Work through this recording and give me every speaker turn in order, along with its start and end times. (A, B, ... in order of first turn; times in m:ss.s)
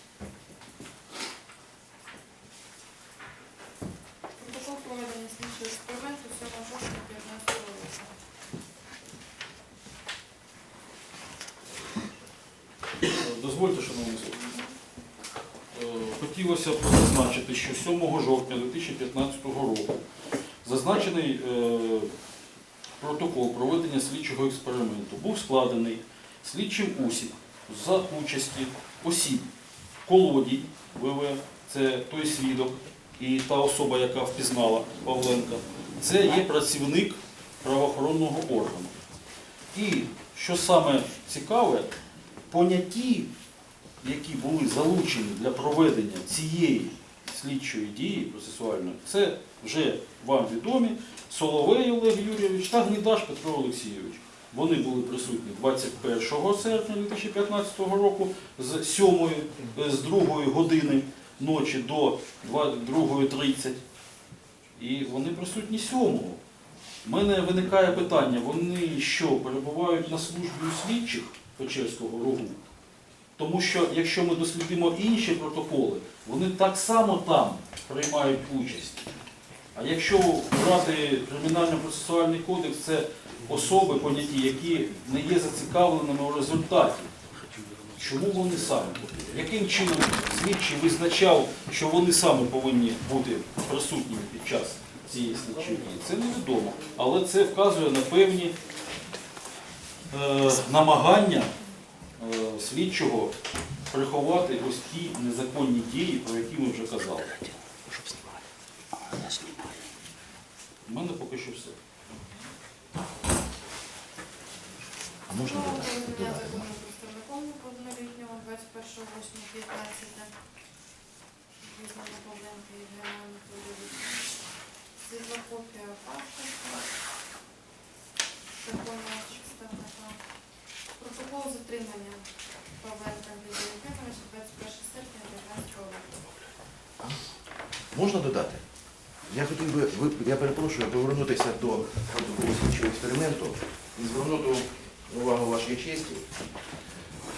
0:04.4-0:08.1 A
0:13.1-0:14.6 B
0:15.7-0:20.0 B
0:20.6-0:22.1 B
0:23.0-0:29.5 B
0:30.0-0:38.9 B
0:39.7-0:42.0 B
0:42.5-0:43.3 B
0:44.0-1:03.8 B
1:04.8-1:06.4 B
1:07.0-1:12.6 B
1:13.4-1:19.1 B
1:19.7-1:27.1 B
1:27.9-1:38.6 B
1:40.1-1:41.5 B
1:42.2-1:43.3 B
1:43.9-1:47.5 B
1:47.8-1:48.5 C
1:49.1-1:49.6 C
1:50.9-1:51.8 B
1:55.3-1:56.7 C
1:55.5-2:00.3 A
2:01.6-2:04.2 A
2:05.0-2:06.9 A
2:08.6-2:10.2 A
2:11.0-2:12.2 A
2:12.8-2:16.2 A
2:17.9-2:18.6 C
2:19.3-2:26.3 C